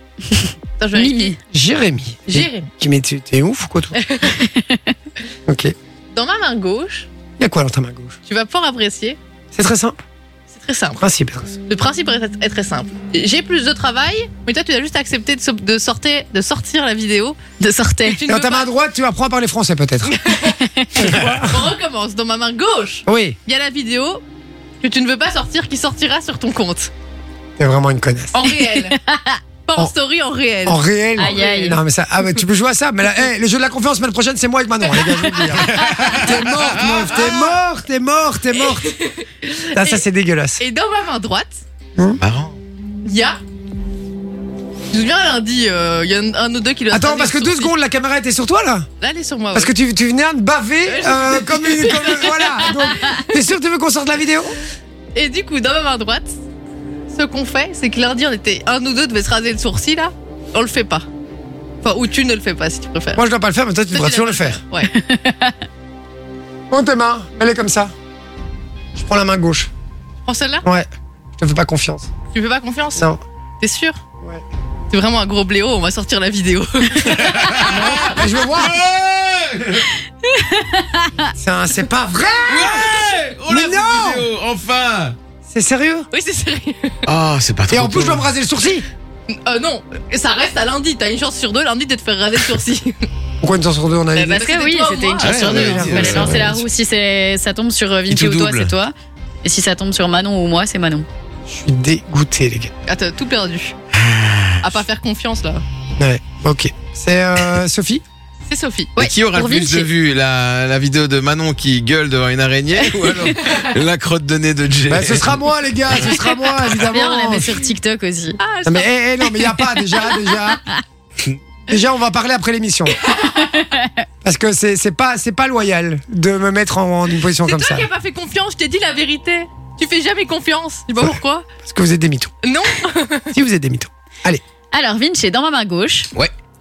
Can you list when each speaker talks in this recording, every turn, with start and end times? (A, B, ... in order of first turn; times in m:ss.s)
0:00.8-0:01.3 A
0:01.0-0:01.4 B
0:01.5-0:04.0 C
0:02.3-0:02.7 A
0:04.0-0:04.4 A
0:04.3-0:04.9 B
0:05.5-0:05.8 C
0:06.1-0:07.1 A
0:07.4-0:08.2 C
0:08.3-0:09.2 A
0:09.5-0:10.0 C
0:10.5-0:11.0 A
0:11.0-0:11.5 C
0:11.7-0:17.4 A
0:17.6-0:18.2 B
0:18.1-0:18.7 A
0:18.3-0:20.2 C
0:20.2-0:24.2 A
0:20.6-0:21.1 B
0:21.0-0:21.6 C
0:23.1-0:23.4 C
0:24.8-0:26.9 A
0:27.6-0:28.4 C
0:28.3-0:29.0 A
0:28.4-0:29.4 B
0:29.7-0:31.8 A
0:30.6-0:38.9 C
0:31.2-0:31.8 B
0:35.0-0:36.3 A
0:35.6-0:37.1 D
0:36.8-0:37.6 A
0:38.6-0:40.0 A
0:39.7-0:40.6 C
0:40.6-0:41.6 A
0:42.2-0:42.6 D
0:43.0-0:43.4 A
0:44.9-0:47.7 A
0:46.9-0:48.9 C
0:49.0-0:49.7 A
0:49.5-0:54.6 C
0:50.9-0:53.3 A
0:55.2-0:56.3 A
0:57.1-1:01.1 A
1:01.8-1:03.2 A
1:03.2-1:04.6 C
1:03.9-1:04.9 A
1:04.8-1:05.6 B
1:06.7-1:07.9 C
1:09.0-1:09.7 C
1:10.2-1:10.6 A
1:10.6-1:12.1 C
1:12.3-1:13.1 A
1:13.0-1:13.2 C
1:13.6-1:14.0 A
1:14.9-1:18.1 A
1:17.1-1:19.9 D
1:17.6-1:18.8 C
1:20.3-1:21.3 B
1:21.4-1:24.3 C
1:22.5-1:25.2 D
1:25.5-1:26.1 C
1:26.1-1:27.1 A
1:27.1-1:28.2 D
1:27.7-1:28.9 C
1:29.3-1:33.1 A
1:33.4-1:34.4 C
1:34.2-1:36.2 A
1:34.2-1:41.1 B
1:35.2-1:36.6 D
1:35.2-1:36.6 C
1:38.1-1:38.7 D
1:41.5-1:42.7 C
1:42.9-1:43.7 A
1:43.9-1:44.6 D
1:44.6-1:45.6 A
1:46.0-1:48.0 C
1:48.5-1:48.9 A
1:49.0-1:49.9 B
1:49.0-1:55.3 D
1:53.4-1:53.6 A
1:54.9-1:57.6 C
1:56.8-1:58.4 B
1:58.4-1:59.9 A
1:58.6-2:00.6 C
2:01.7-2:03.0 C
2:03.0-2:03.4 A
2:03.3-2:04.0 B
2:04.2-2:07.9 C
2:07.4-2:11.5 A
2:11.0-2:12.3 C
2:12.4-2:13.3 A
2:13.3-2:14.4 C
2:14.7-2:16.1 B